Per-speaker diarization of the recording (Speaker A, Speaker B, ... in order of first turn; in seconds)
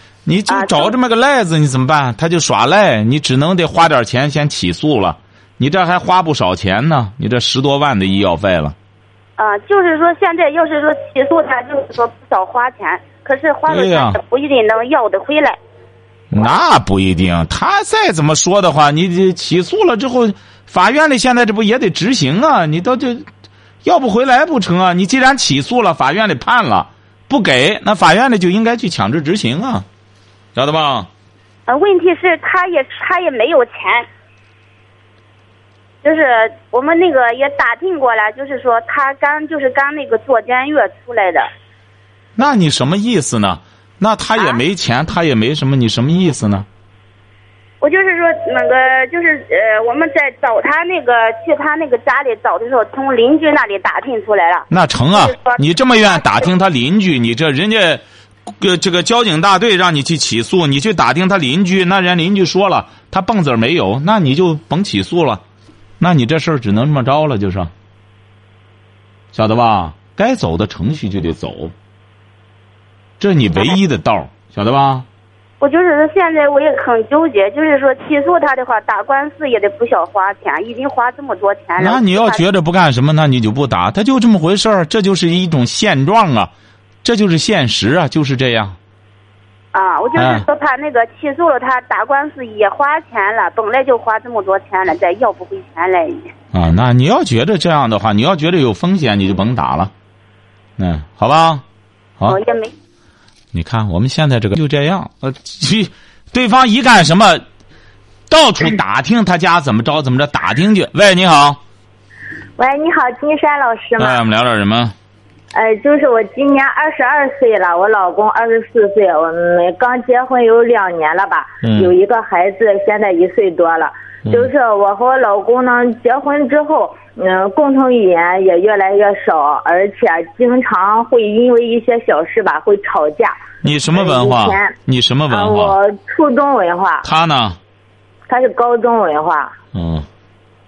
Speaker A: 0.2-8.7, 13.7-14.2, 16.3-23.3, 23.8-29.8, 30.6-31.1, 42.4-46.6, 54.7-58.0, 58.6-65.4, 66.0-67.7, 69.3-71.7, 73.2-75.0, 81.8-86.5, 87.0-88.8, 90.2-90.4, 96.5-99.9, 100.8-101.6, 103.5-107.4, 108.3-111.6, 114.0-114.9, 121.6-121.9, 133.6-135.8, 137.0-137.6, 139.7-140.1
Speaker B: 0.5-0.9, 9.4-15.6, 31.7-34.1, 36.0-41.5, 44.3-44.6, 47.8-56.5, 75.6-82.4, 89.7-96.3, 102.3-102.7
Speaker C: 112.6-114.2, 115.5-133.3, 133.9-134.8, 135.3-137.0, 138.3-139.5